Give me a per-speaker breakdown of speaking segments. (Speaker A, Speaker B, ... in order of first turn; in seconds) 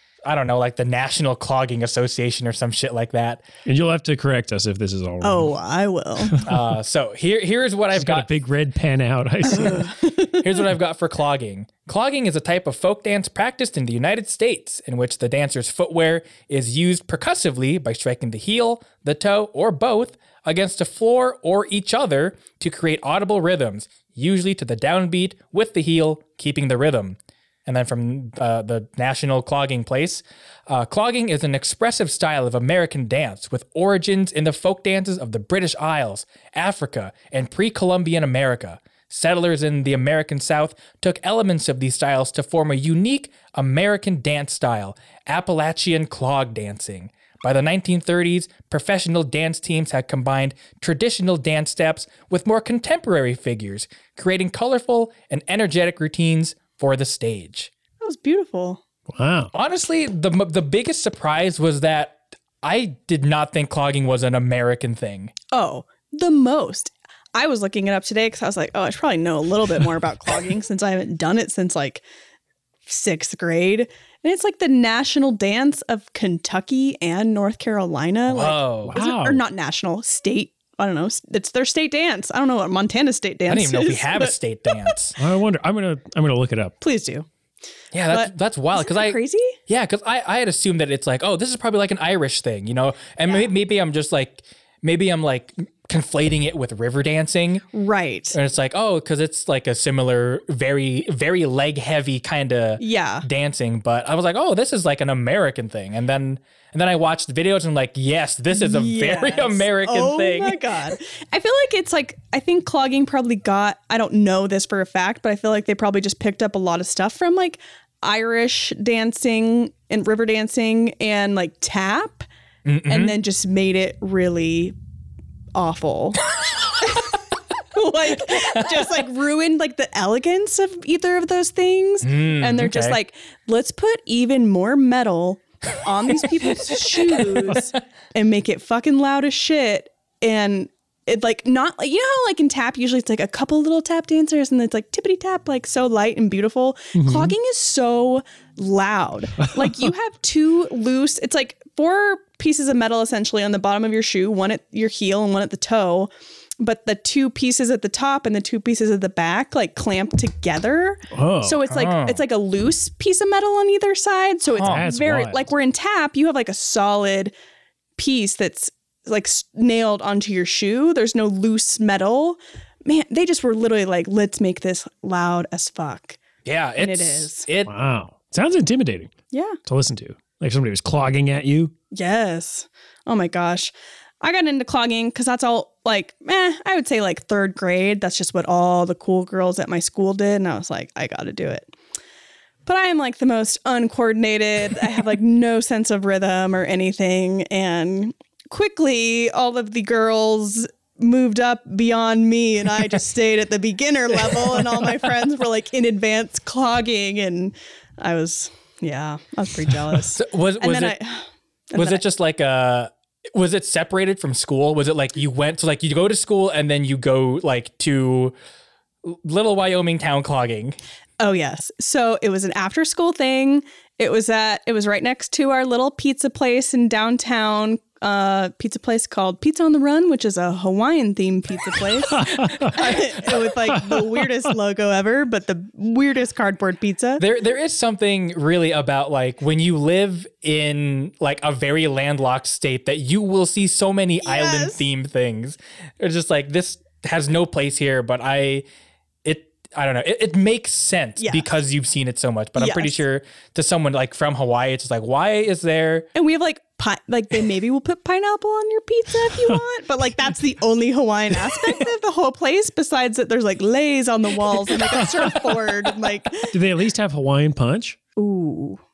Speaker A: 0.2-3.4, 6.4-8.3, 10.3-57.7, 59.5-65.3, 78.3-79.0, 83.5-85.2, 87.9-97.6, 98.3-110.6, 122.6-123.2, 132.0-133.0, 137.3-137.6, 161.7-162.2, 164.5-164.9, 176.4-177.7, 210.1-210.9, 211.7-218.3, 219.0-220.8, 232.7-233.3, 237.2-248.6, 249.2-256.1
Speaker B: 3.6-5.5, 6.2-6.6, 7.9-9.9, 59.1-59.5, 78.8-79.4, 85.2-86.7, 146.9-147.3, 149.6-149.9, 161.1-161.6, 164.6-165.5, 177.6-179.1, 179.6-181.7, 232.1-232.7, 233.7-234.3, 264.7-265.6, 266.4-268.0
Speaker C: 5.2-6.4, 9.5-10.3, 58.0-58.8, 65.5-72.0, 72.9-84.9, 86.8-87.2, 88.1-89.6, 97.7-98.4, 102.8-103.2, 108.5-122.3, 122.9-124.8, 125.5-126.2, 126.8-127.1, 127.7-167.3, 168.0-176.2, 176.8-177.5, 179.3-179.6, 181.9-191.7, 192.7-212.0, 221.2-237.2, 244.2-244.9, 251.2-251.5, 252.6-253.0, 256.1-266.5, 268.2-268.8